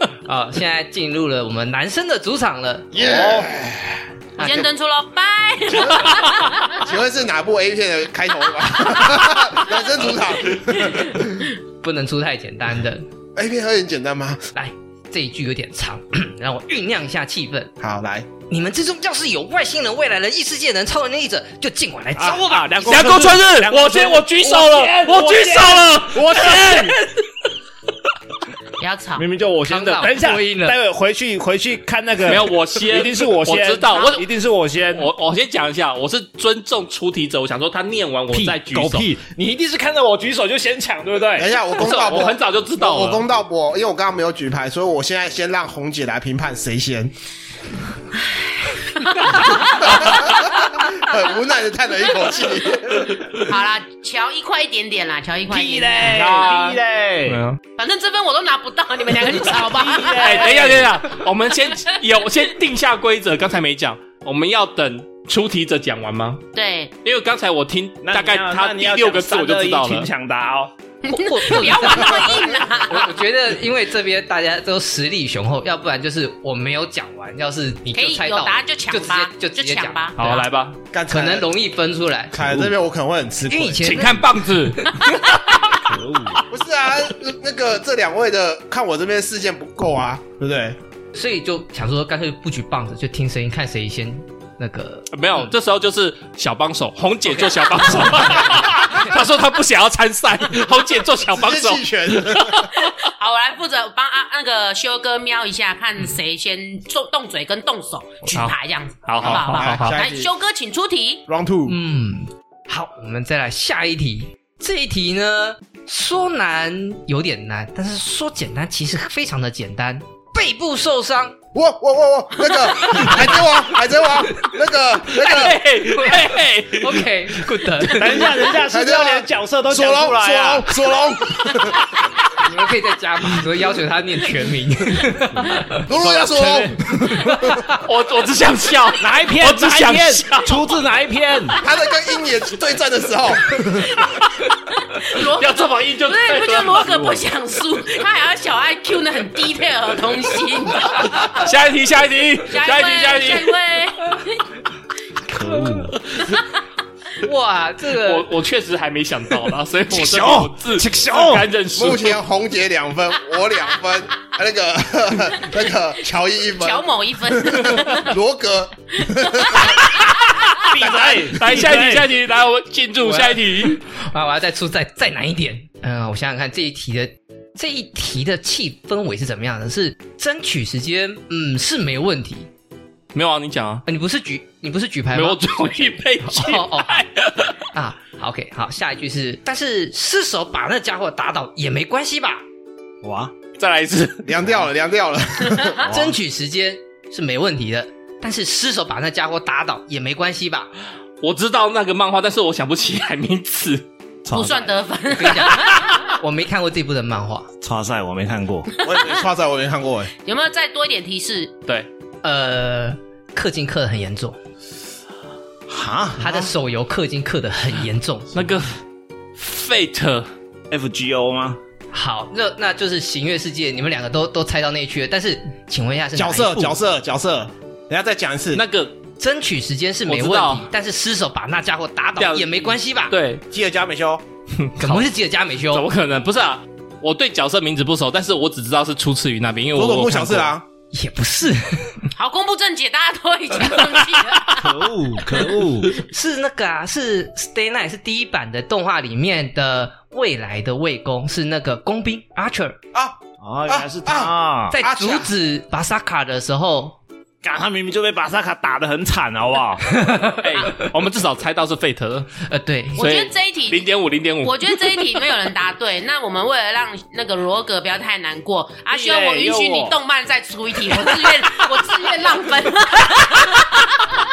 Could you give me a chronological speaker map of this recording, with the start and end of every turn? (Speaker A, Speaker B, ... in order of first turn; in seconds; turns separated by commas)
Speaker A: 0.3-2.9, Speaker B: 2.9-4.7, Speaker C: 2.9-3.5, Speaker D: 4.4-6.8, Speaker B: 5.7-6.1, Speaker B: 6.7-11.5, Speaker A: 11.8-13.0, Speaker B: 13.3-14.4, Speaker A: 14.6-17.7, Speaker B: 17.8-18.3, Speaker A: 18.5-22.9, Speaker C: 22.2-27.0, Speaker E: 22.8-27.2, Speaker D: 28.8-29.3, Speaker C: 29.2-35.1, Speaker A: 29.7-30.8, Speaker E: 32.3-34.2, Speaker E: 34.9-39.1, Speaker C: 38.3-41.5, Speaker B: 41.4-47.1, Speaker E: 41.6-43.3, Speaker D: 48.3-49.9, Speaker B: 49.3-53.5, Speaker D: 53.4-56.8, Speaker C: 55.5-57.4, Speaker B: 56.2-56.5, Speaker E: 57.3-57.6, Speaker D: 57.8-60.4, Speaker C: 59.4-60.9, Speaker E: 60.1-66.5, Speaker D: 66.5-66.9, Speaker E: 67.0-70.1, Speaker C: 68.0-70.7, Speaker D: 71.0-73.2, Speaker A: 71.1-80.5, Speaker D: 77.9-80.2, Speaker E: 80.2-80.8, Speaker B: 80.9-81.5, Speaker A: 81.1-82.3, Speaker B: 82.3-84.2, Speaker C: 82.4-82.8, Speaker A: 83.5-85.0, Speaker E: 83.8-85.7, Speaker C: 85.8-86.5, Speaker B: 86.5-90.8, Speaker A: 91.1-95.5, Speaker E: 95.1-102.9, Speaker A: 97.3-99.1, Speaker B: 101.3-102.7, Speaker D: 102.8-111.2, Speaker A: 108.2-108.5, Speaker E: 108.3-110.0, Speaker B: 109.2-110.3, Speaker B: 111.3-111.8, Speaker A: 111.7-121.4, Speaker B: 121.5-125.6, Speaker A: 122.9-123.4, Speaker E: 125.1-127.1, Speaker A: 126.7-128.3, Speaker C: 127.9-130.7, Speaker B: 128.5-131.8, Speaker A: 132.4-137.8, Speaker B: 135.8-137.6, Speaker E: 137.8-140.7, Speaker C: 139.0-141.6, Speaker B: 141.6-143.9, Speaker D: 144.9-151.4, Speaker E: 145.2-147.1, Speaker E: 151.0-153.6, Speaker D: 152.5-154.4, Speaker C: 155.3-156.0, Speaker A: 157.2-158.3, Speaker E: 158.0-162.2, Speaker C: 159.9-161.5, Speaker B: 161.7-169.8, Speaker D: 166.6-168.1, Speaker D: 169.4-170.2, Speaker E: 170.1-170.7, Speaker C: 170.7-172.1, Speaker B: 170.8-171.6, Speaker E: 171.3-173.8, Speaker A: 173.0-182.5, Speaker E: 183.1-183.8, Speaker A: 183.9-185.7, Speaker E: 185.1-187.6, Speaker A: 186.3-187.0, Speaker A: 187.7-192.4, Speaker C: 193.0-193.3, Speaker E: 193.6-194.4, Speaker B: 194.3-195.9, Speaker C: 195.8-196.2, Speaker A: 195.9-200.7, Speaker E: 201.2-203.8, Speaker C: 204.2-204.8, Speaker D: 204.3-206.2, Speaker A: 205.1-207.5, Speaker C: 207.6-208.7, Speaker D: 208.8-209.1, Speaker B: 208.8-210.1, Speaker D: 210.2-211.5, Speaker A: 212.2-214.4, Speaker C: 215.7-216.4, Speaker A: 216.2-218.3, Speaker E: 218.3-218.8, Speaker E: 219.4-220.3, Speaker C: 220.7-221.6, Speaker A: 221.9-226.8, Speaker B: 226.2-228.6, Speaker E: 228.5-229.0, Speaker A: 229.2-233.2, Speaker E: 230.1-230.7, Speaker E: 232.2-233.4, Speaker B: 233.5-234.2, Speaker E: 234.6-235.1, Speaker A: 234.8-235.9, Speaker E: 235.7-240.6, Speaker B: 239.7-240.6, Speaker A: 240.9-242.1, Speaker D: 242.2-244.7, Speaker C: 244.6-245.9, Speaker A: 246.0-252.8, Speaker B: 252.9-255.3, Speaker C: 253.4-254.8, Speaker A: 254.7-257.0, Speaker C: 257.4-259.9, Speaker A: 259.9-260.9, Speaker E: 260.4-262.3, Speaker A: 262.4-263.0, Speaker D: 262.9-263.9, Speaker E: 263.0-265.0, Speaker D: 264.4-274.1, Speaker C: 268.9-270.0